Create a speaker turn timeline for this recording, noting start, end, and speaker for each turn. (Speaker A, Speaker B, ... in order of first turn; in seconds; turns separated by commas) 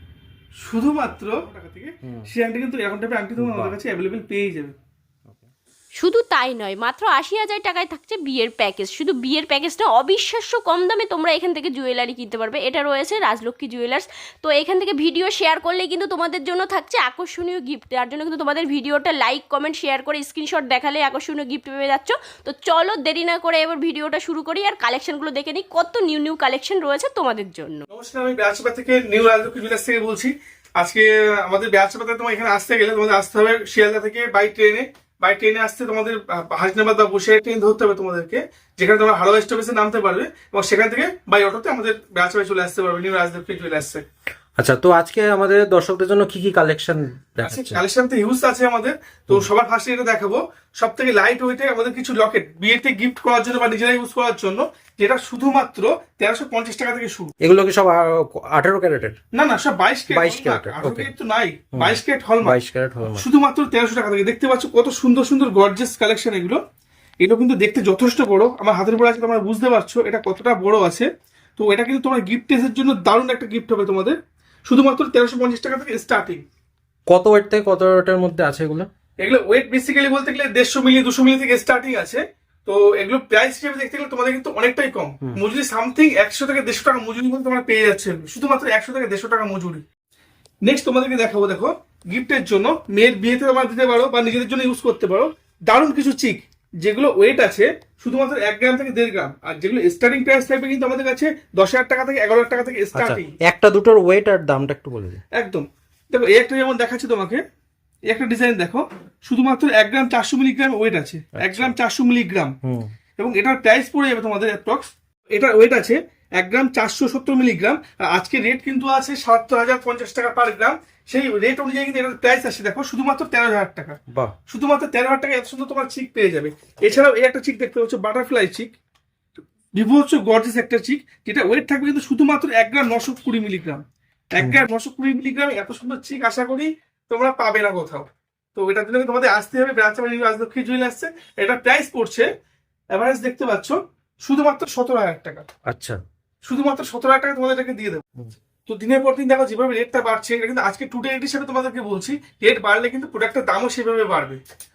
Speaker A: 0.6-4.7, Speaker B: 2.0-2.3, Speaker B: 3.4-3.8, Speaker C: 6.0-27.8, Speaker A: 27.9-44.0, Speaker B: 44.6-47.8, Speaker A: 47.4-57.3, Speaker B: 57.4-59.1, Speaker A: 59.3-62.6, Speaker B: 60.1-61.1, Speaker B: 61.7-63.2, Speaker A: 63.1-66.6, Speaker A: 67.2-76.4, Speaker B: 77.1-78.9, Speaker A: 79.2-89.8, Speaker A: 90.6-103.3, Speaker B: 102.9-105.2, Speaker A: 105.3-107.4, Speaker A: 108.1-112.5, Speaker B: 111.3-111.8, Speaker B: 112.6-112.9, Speaker A: 113.2-128.7, Speaker A: 129.7-142.3, Speaker A: 142.9-145.4, Speaker B: 145.7-146.0, Speaker A: 146.4-148.1, Speaker A: 148.7-154.4